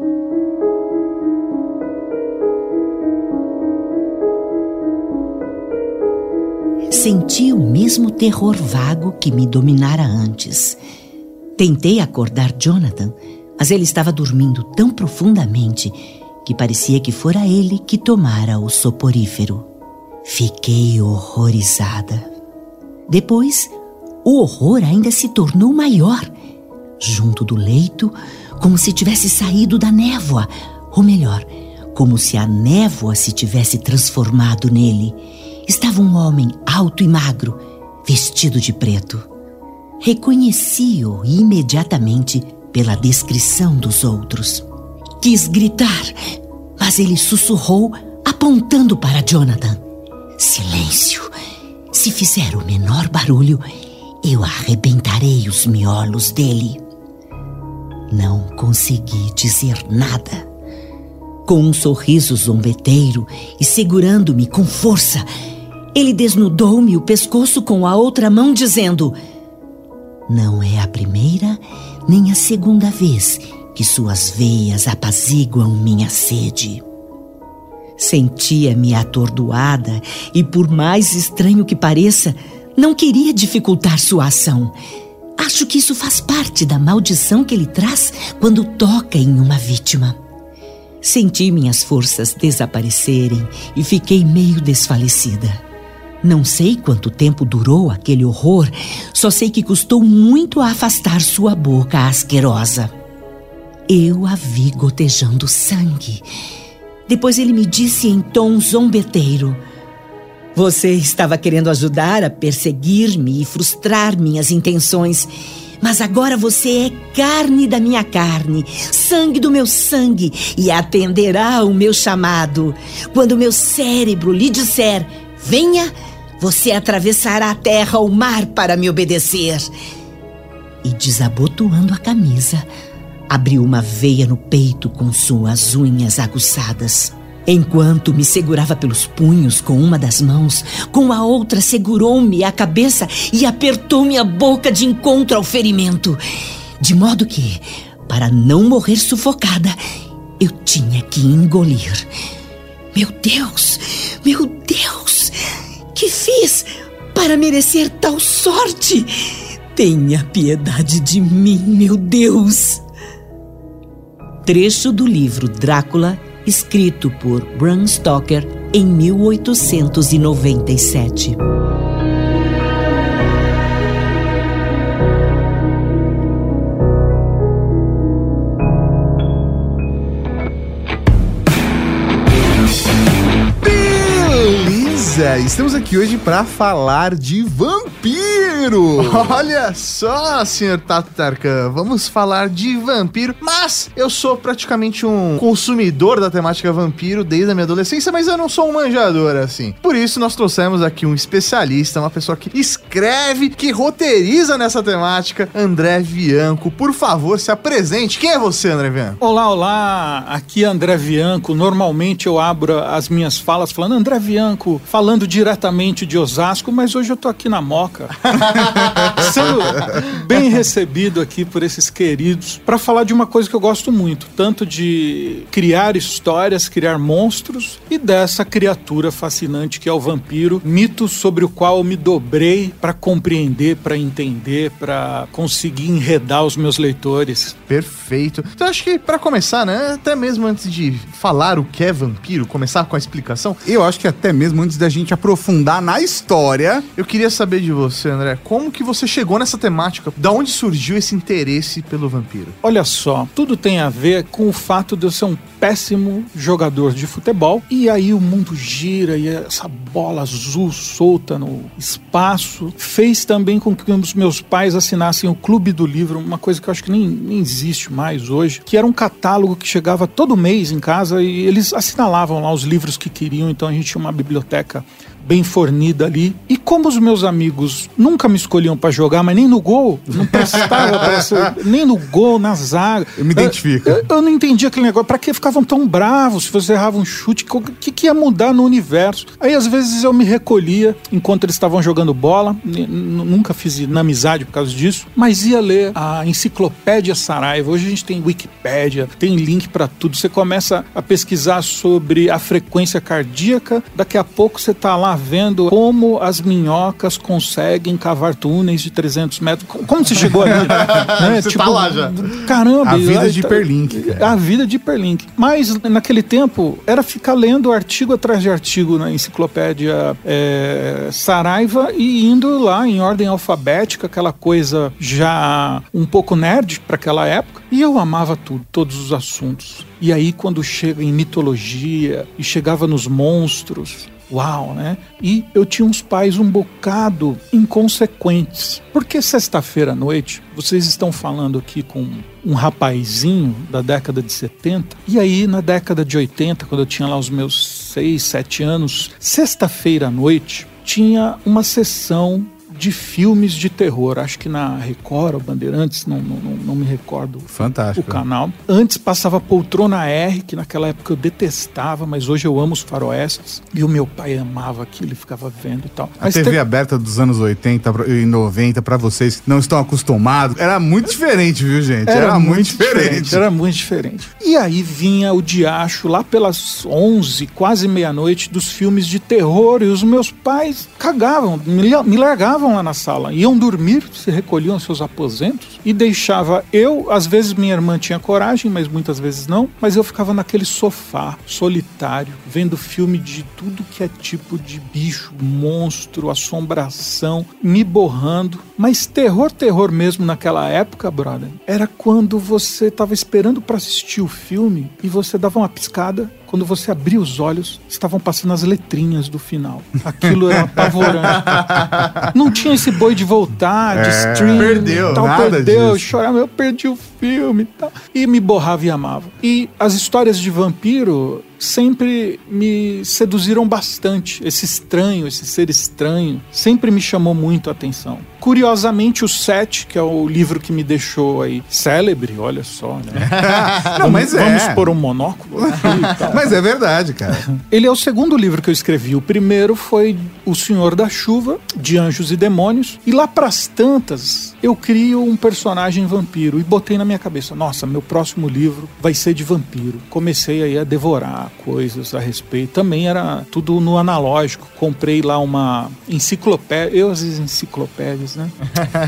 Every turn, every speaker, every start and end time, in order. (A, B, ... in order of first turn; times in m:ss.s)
0:06.9-0:10.8 A
0:11.6-0:19.7 A
0:20.2-0:22.3 A
0:23.1-0:26.3 A
0:27.0-0:39.3 A
0:40.0-0:44.6 A
0:45.2-0:46.2 A
0:46.8-0:49.8 A
0:50.4-0:51.3 A
0:51.9-0:53.7 A
0:54.2-0:56.8 A
0:58.1-1:00.5 A
1:01.5-1:05.3 A
1:06.0-1:09.2 A
1:10.3-1:16.8 A
1:18.0-1:24.8 A
1:25.4-1:30.2 A
1:31.0-1:35.6 A
1:36.2-1:42.9 A
1:43.9-1:46.2 A
1:47.1-1:49.6 A
1:50.6-2:09.7 A
2:10.8-2:12.7 A
2:13.3-2:26.2 A
2:26.8-2:29.8 A
2:30.4-2:32.1 A
2:32.9-2:35.4 A
2:35.9-2:42.8 A
2:44.4-2:51.4 A
3:03.6-3:09.4 B
3:09.0-3:29.2 C
3:29.2-3:57.6 D
3:38.4-3:39.3 C
3:57.7-4:03.6 C
4:03.6-4:06.9 B
4:07.0-4:12.6 C
4:12.6-6:06.6 D
4:43.2-4:44.1 B
5:10.5-5:12.5 C
5:12.8-5:14.4 B
5:57.5-5:58.2 B
6:06.2-6:13.4 B
6:12.1-7:16.6 D
6:50.2-6:51.8 B
6:51.3-6:52.2 C
6:53.9-6:56.1 B
6:54.5-6:55.2 C
7:13.2-7:14.0 C
7:13.2-7:14.9 B
7:15.7-7:17.4 B
7:17.3-7:38.8 D